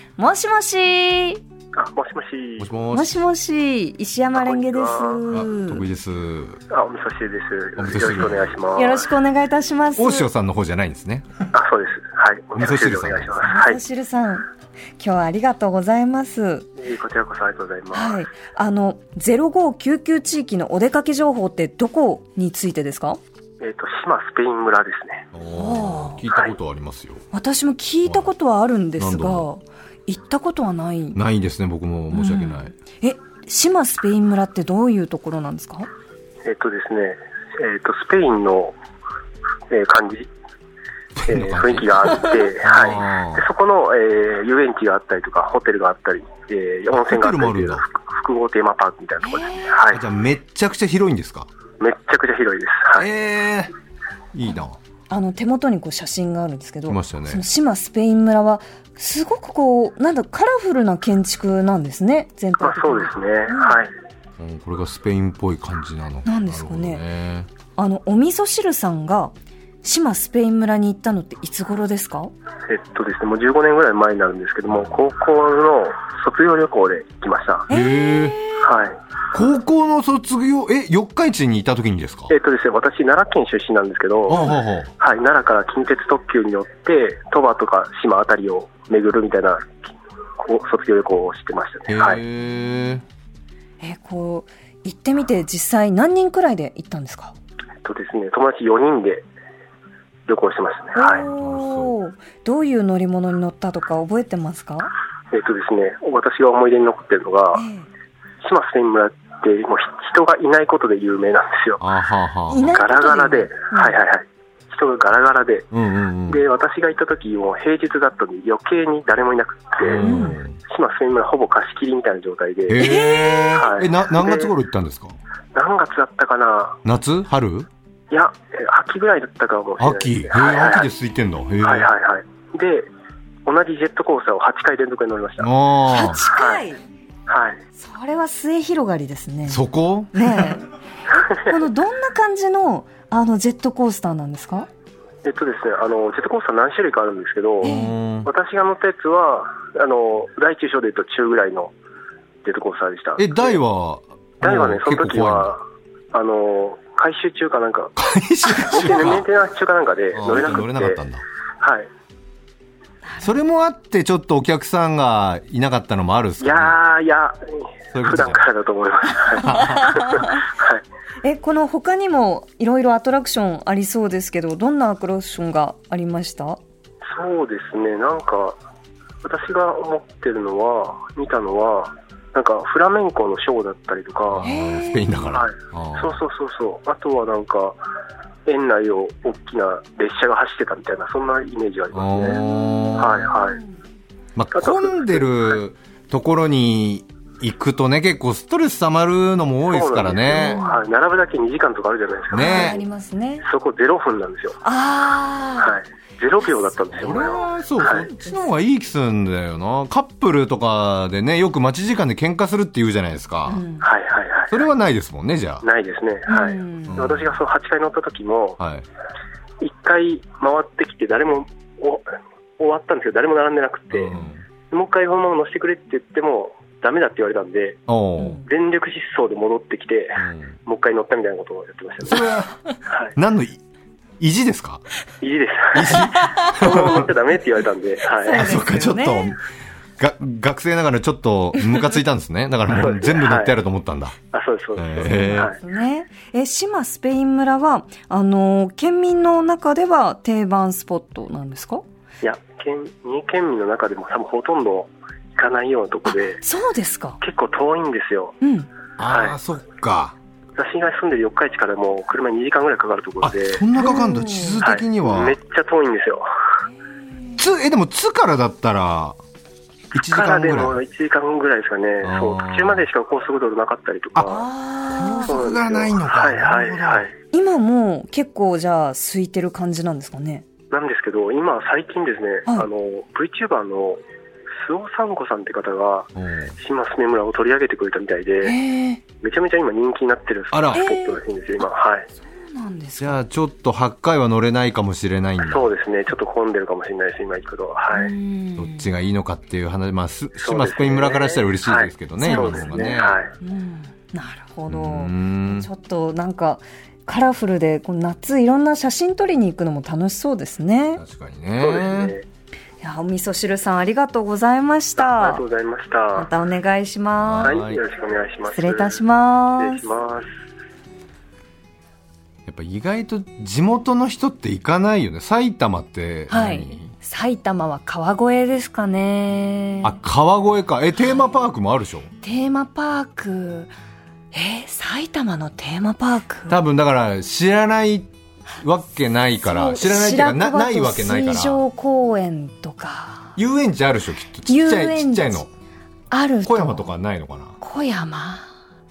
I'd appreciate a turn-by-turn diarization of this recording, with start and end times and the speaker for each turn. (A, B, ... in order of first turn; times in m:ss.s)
0:00.2-0:01.4 A
0:01.7-0:02.7 B
0:02.6-0:03.3 C
0:02.9-0:05.8 A
0:04.3-0:05.2 B
0:05.3-0:06.6 C
0:06.7-0:09.1 B
0:07.8-0:08.6 C
0:08.8-0:10.3 A
0:10.0-0:11.4 C
0:11.5-0:13.8 B
0:12.6-0:13.6 C
0:13.4-0:14.4 A
0:15.0-0:16.7 A
0:16.8-0:18.2 B
0:17.9-0:23.2 A
0:23.6-0:25.3 B
0:25.3-0:27.2 C
0:25.5-0:26.2 A
0:27.3-0:31.2 A
0:29.0-0:29.5 C
0:31.1-0:32.7 C
0:32.1-0:35.9 A
0:36.4-0:38.7 B
0:39.7-0:40.3 B
0:41.2-0:43.5 C
0:41.3-0:50.0 B
0:46.9-0:47.8 C
0:49.2-0:49.7 A
0:49.9-0:51.5 C
0:51.8-0:53.1 B
0:52.9-0:53.7 C
0:54.3-0:54.8 C
0:55.1-1:03.8 A
0:56.9-0:57.4 C
1:02.6-1:03.9 B
1:04.4-1:07.5 C
1:06.2-1:07.0 A
1:07.8-1:09.3 A
1:09.8-1:12.3 A
1:12.7-1:17.7 B
1:14.7-1:14.9 C
1:17.7-1:18.6 A
1:17.7-1:18.4 C
1:18.6-1:19.0 B
1:19.3-1:22.3 C
1:22.3-1:32.2 B
1:24.3-1:24.9 C
1:31.9-1:33.0 C
1:33.8-1:37.3 A
1:37.8-1:39.2 B
1:40.3-1:41.2 B
1:40.9-1:44.9 A
1:41.0-1:41.9 C
1:45.3-1:47.6 B
1:47.5-1:47.9 A
1:48.4-1:51.8 B
1:51.8-1:52.8 C
1:52.5-1:54.0 A
1:52.7-1:55.7 B
1:55.7-1:56.4 C
1:56.3-2:02.8 B
1:59.8-2:00.6 C
2:00.0-2:00.4 A
2:02.7-2:05.2 C
2:02.8-2:03.6 A
2:03.6-2:04.5 B
2:05.5-2:06.8 B
2:06.8-2:07.7 C
2:08.1-2:10.9 B
2:09.8-2:11.9 C
2:11.6-2:12.9 B
2:13.4-2:15.5 B
2:15.4-2:16.2 C
2:15.9-2:16.8 A
2:16.2-2:16.6 B
2:17.3-2:17.6 B
2:17.8-2:19.6 A
2:19.5-2:20.5 C
2:20.1-2:24.7 A
2:25.2-2:31.7 B
2:27.6-2:28.3 C
2:27.6-2:27.9 A
2:32.4-2:33.6 B
2:33.2-2:35.6 C
2:34.4-2:37.9 B
2:38.0-2:39.3 C
2:38.5-2:41.0 B
2:40.1-2:41.2 C
2:41.6-2:41.9 B
2:43.1-2:43.3 A
2:43.2-2:46.8 C
2:46.4-2:47.5 B
2:47.9-2:48.4 C
2:48.0-2:50.8 B
2:49.3-2:50.0 C
2:49.4-2:50.3 A
2:51.2-2:56.6 A
2:57.1-2:58.6 B
2:59.2-3:04.5 B
3:04.3-3:06.2 C
3:04.4-3:05.1 A
3:05.3-3:07.8 B
3:08.4-3:12.4 B
3:11.9-3:13.3 C
3:12.3-3:13.6 A
3:13.0-3:13.6 B
3:14.4-3:20.6 C
3:14.5-3:15.3 B
3:19.7-3:22.8 B
3:20.3-3:20.8 A
3:22.3-3:22.8 C
3:22.3-3:23.4 A
3:23.4-3:24.6 B
3:24.6-3:25.8 A
3:25.6-3:28.1 B
3:26.9-3:33.6 C
3:33.5-3:33.9 A
3:33.8-3:34.6 B
3:34.5-3:35.6 C
3:35.6-3:38.6 B
3:36.3-3:37.0 A
3:36.9-3:37.4 C
3:38.6-3:38.8 C
3:39.6-3:42.0 B
3:42.6-3:44.1 B
3:43.9-3:44.4 C
3:44.7-3:47.8 B
3:47.9-3:48.4 C
3:48.2-3:48.4 A
3:48.4-3:52.2 B
3:50.2-3:50.6 C
3:52.0-3:52.6 C
3:52.9-3:53.1 B
3:53.1-3:53.6 C
3:54.2-3:54.8 C
3:55.2-3:58.5 B
3:55.7-3:57.1 C
3:58.2-3:59.4 A
3:58.3-3:59.4 C
4:00.0-4:04.1 C
4:02.7-4:03.5 B
4:04.3-4:05.6 B
4:04.8-4:05.5 C
4:05.0-4:11.8 A
4:12.2-4:16.4 B
4:16.0-4:17.2 A
4:17.2-4:18.4 B
4:18.4-4:18.7 A
4:19.0-4:20.2 C
4:19.1-4:19.4 B
4:20.6-4:23.6 B
4:23.2-4:25.4 C
4:23.8-4:24.6 A
4:24.6-4:26.2 B
4:26.8-4:27.4 A
4:27.4-4:29.2 C
4:29.9-4:30.8 C
4:30.1-4:34.4 B
4:32.0-4:32.9 C
4:34.1-4:34.4 C
4:34.2-4:35.4 A
4:34.9-4:37.1 C
4:35.2-4:37.1 B
4:37.3-4:40.4 A
4:40.7-4:44.0 B
4:44.6-4:48.6 B
4:46.1-4:46.5 C
4:48.4-4:49.0 A
4:49.2-4:52.1 B
4:50.5-4:50.8 C
4:50.7-4:51.2 A
4:52.2-4:53.2 A
4:53.0-4:55.7 C
4:55.4-4:58.1 B
4:57.9-4:58.9 A
4:58.6-5:03.2 C
5:00.4-5:03.3 B
5:02.2-5:11.0 A
5:04.7-5:05.7 C
5:11.0-5:12.1 C
5:11.6-5:12.2 B
5:12.8-5:15.4 A
5:15.0-5:16.3 B
5:16.1-5:17.6 A
5:17.2-5:17.8 C
5:17.4-5:19.0 B
5:18.5-5:19.9 A
5:19.6-5:20.3 B
5:22.4-5:26.9 C
5:26.3-5:30.0 A
5:29.8-5:32.1 C
5:31.0-5:31.4 A
5:32.2-5:33.7 A
5:34.3-5:36.6 A
5:36.5-5:41.6 C
5:39.4-5:43.3 A
5:43.4-5:45.5 C
5:44.5-5:45.4 A
5:46.1-5:46.9 A
5:46.4-5:47.6 C
5:47.6-5:48.4 A